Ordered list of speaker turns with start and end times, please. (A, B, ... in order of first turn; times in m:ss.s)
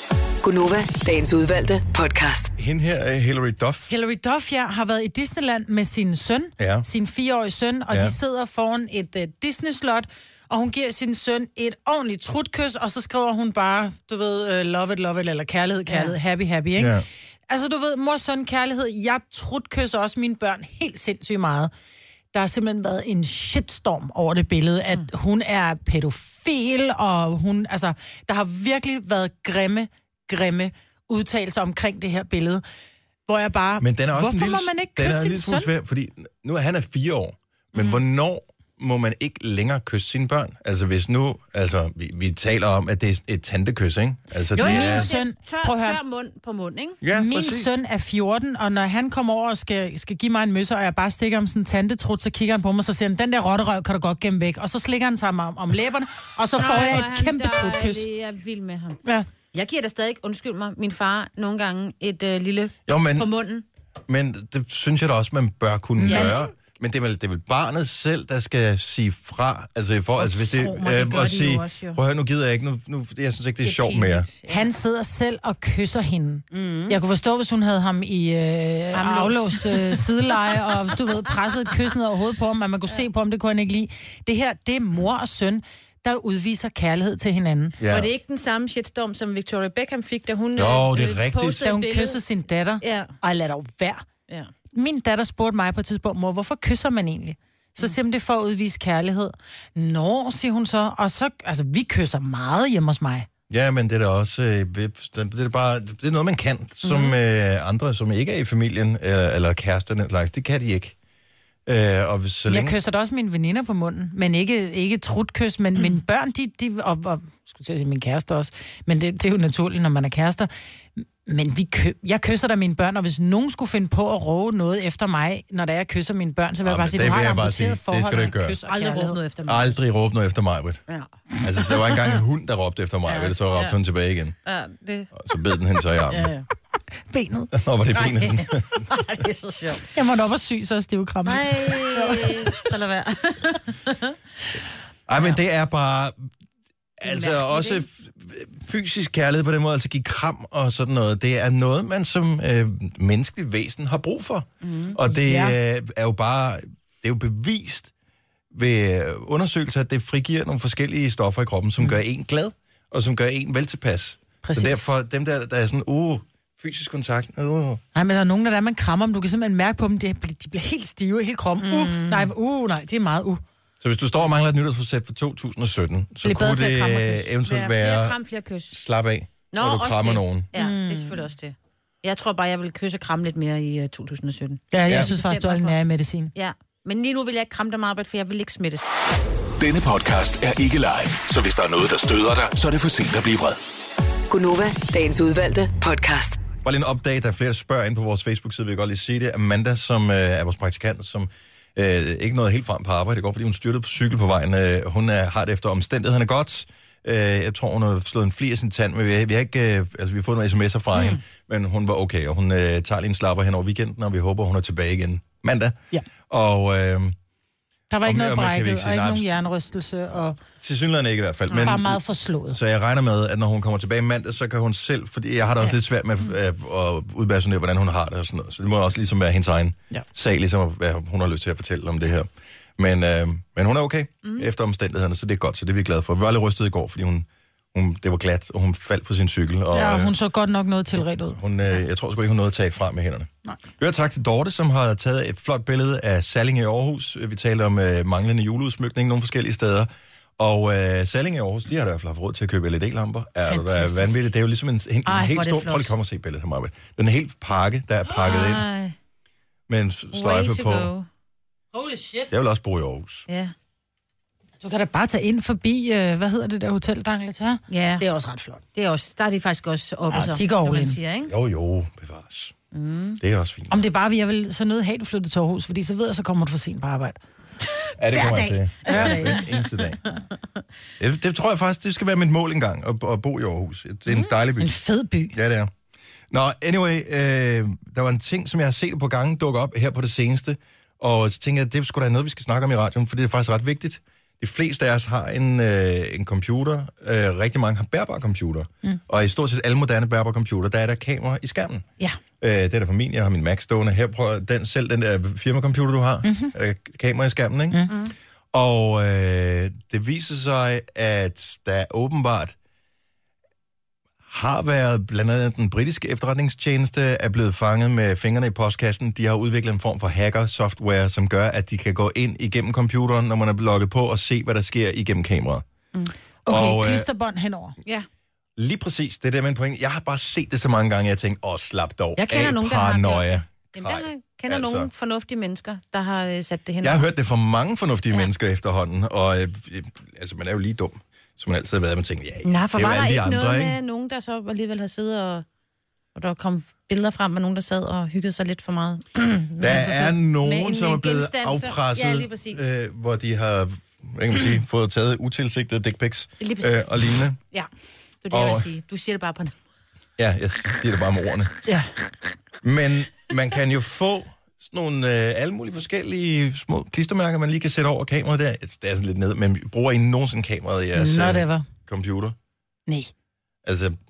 0:00.4-0:02.5 A
0:02.6-0:03.9 B
0:03.9-0:17.0 C
0:06.6-0:06.9 B
0:07.9-0:08.2 B
0:15.9-0:16.1 D
0:16.8-0:17.0 B
0:17.5-0:21.7 C
0:22.3-0:32.6 C
0:33.3-0:35.7 C
0:33.8-0:45.1 B
0:44.6-0:46.0 C
0:44.6-0:47.0 D
0:47.0-0:47.7 B
0:47.1-0:58.0 C
0:56.6-0:59.0 D
0:59.5-1:03.6 D
1:02.9-1:03.3 B
1:04.1-1:14.3 B
1:06.0-1:06.4 C
1:06.1-1:06.5 D
1:10.2-1:12.0 D
1:13.6-1:14.7 D
1:14.5-1:27.8 C
1:16.5-1:17.0 D
1:18.9-1:20.9 D
1:27.8-1:28.1 B
1:27.9-1:32.2 D
1:30.6-1:31.7 B
1:31.6-1:34.0 C
1:32.8-1:33.1 D
1:34.7-1:43.3 C
1:43.5-1:51.0 B
1:46.8-1:47.1 D
1:51.7-1:52.8 B
1:52.5-2:09.2 C
2:06.6-2:08.6 B
2:08.2-2:09.7 D
2:09.4-2:10.8 B
2:11.4-2:14.4 B
2:11.7-2:12.1 D
2:13.1-2:13.8 D
2:14.4-2:15.2 D
2:15.2-2:16.3 B
2:16.1-2:16.4 D
2:17.1-2:17.5 C
2:17.5-2:18.8 B
2:17.9-2:19.9 D
2:19.9-2:22.6 C
2:21.3-2:24.2 D
2:25.1-2:26.2 B
2:27.0-2:37.9 B
2:27.1-2:27.8 D
2:34.6-2:35.0 D
2:35.1-2:35.6 C
2:38.5-2:47.8 B
2:44.4-2:44.8 C
2:48.0-2:53.4 C
2:51.6-2:52.3 D
2:53.8-2:58.2 B
2:56.2-2:57.2 C
2:57.4-2:58.8 D
2:58.7-3:00.5 B
2:59.5-3:05.8 D
3:00.6-3:01.2 C
3:04.7-3:06.3 C
3:06.4-3:08.8 D
3:09.6-3:13.6 E
3:14.3-3:16.4 A
3:16.6-3:37.2 B
3:37.9-3:40.4 C
3:38.0-3:39.3 B
3:40.6-4:00.1 B
3:41.6-3:42.6 C
3:59.7-4:01.4 C
4:01.2-4:18.7 B
4:15.1-4:15.9 D
4:18.1-4:19.0 D
4:19.7-4:20.9 B
4:20.1-4:21.1 D
4:21.7-4:22.3 C
4:22.3-4:23.3 B
4:23.3-4:23.5 D
4:24.6-4:28.6 C
4:27.7-4:28.0 D
4:28.8-4:31.3 D
4:30.1-4:31.0 C
4:31.3-4:32.6 B
4:32.7-4:33.2 D
4:33.2-4:33.8 B
4:33.7-4:37.2 C
4:38.0-4:40.0 B
4:38.1-4:39.4 C
4:38.3-4:39.5 D
4:41.0-4:44.7 B
4:44.6-4:45.4 C
4:45.3-4:45.7 B
4:46.3-5:01.9 B
5:02.4-5:07.9 B
5:06.2-5:06.5 C
5:08.5-5:12.6 B
5:14.3-5:25.6 B
5:26.4-5:27.8 C
5:26.5-5:27.1 B
5:28.6-5:34.9 B
5:32.2-5:37.1 D
5:36.8-5:43.8 B
5:42.4-5:45.4 D
5:46.1-5:52.6 D
5:49.6-5:57.4 B
5:56.4-5:57.7 D
5:58.2-5:59.6 D
5:58.3-5:58.7 B
6:00.2-6:01.5 B
6:01.6-6:01.9 C
6:02.6-6:12.4 B
6:11.0-6:11.7 C
6:13.6-6:14.0 B